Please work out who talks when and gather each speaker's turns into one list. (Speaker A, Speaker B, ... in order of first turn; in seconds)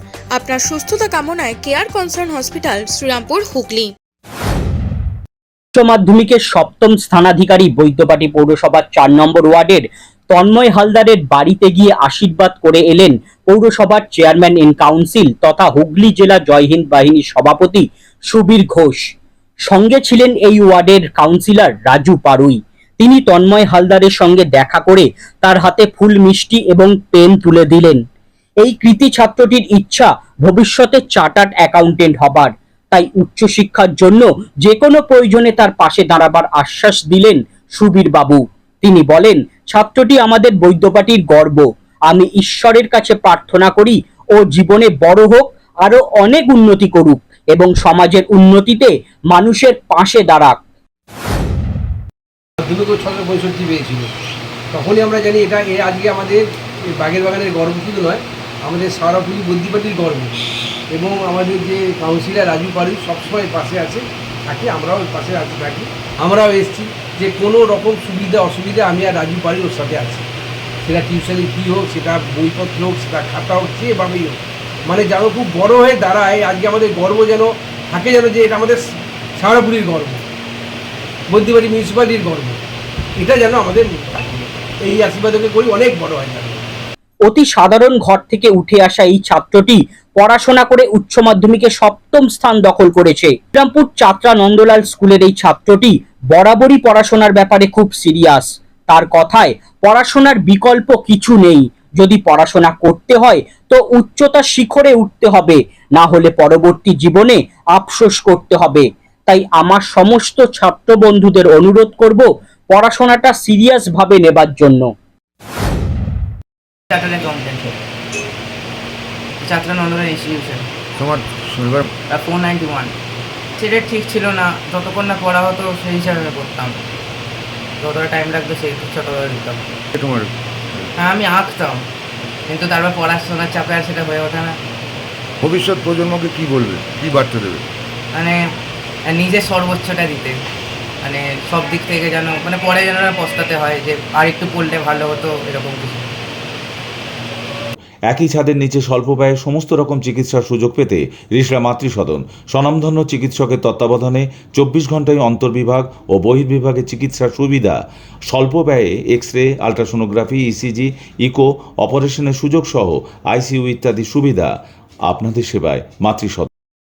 Speaker A: 0.4-3.9
Speaker B: 5.8-19.0, 19.7-28.0, 28.6-50.6, 87.3-114.9
Speaker C: 52.6-54.1, 54.7-56.4, 57.0-60.3, 60.9-70.3, 70.8-78.8, 79.4-80.2, 81.3-82.6, 83.2-86.7
Speaker D: 116.9-117.8, 119.5-120.6, 122.1-122.9, 123.6-126.7, 127.8-129.6, 131.0-131.8, 132.5-134.6, 138.1-138.4, 139.1-140.4, 141.0-146.1
Speaker E: 121.0-121.9, 129.9-130.8, 135.4-137.7
Speaker F: 148.1-157.8, 158.3-164.5, 165.1-166.5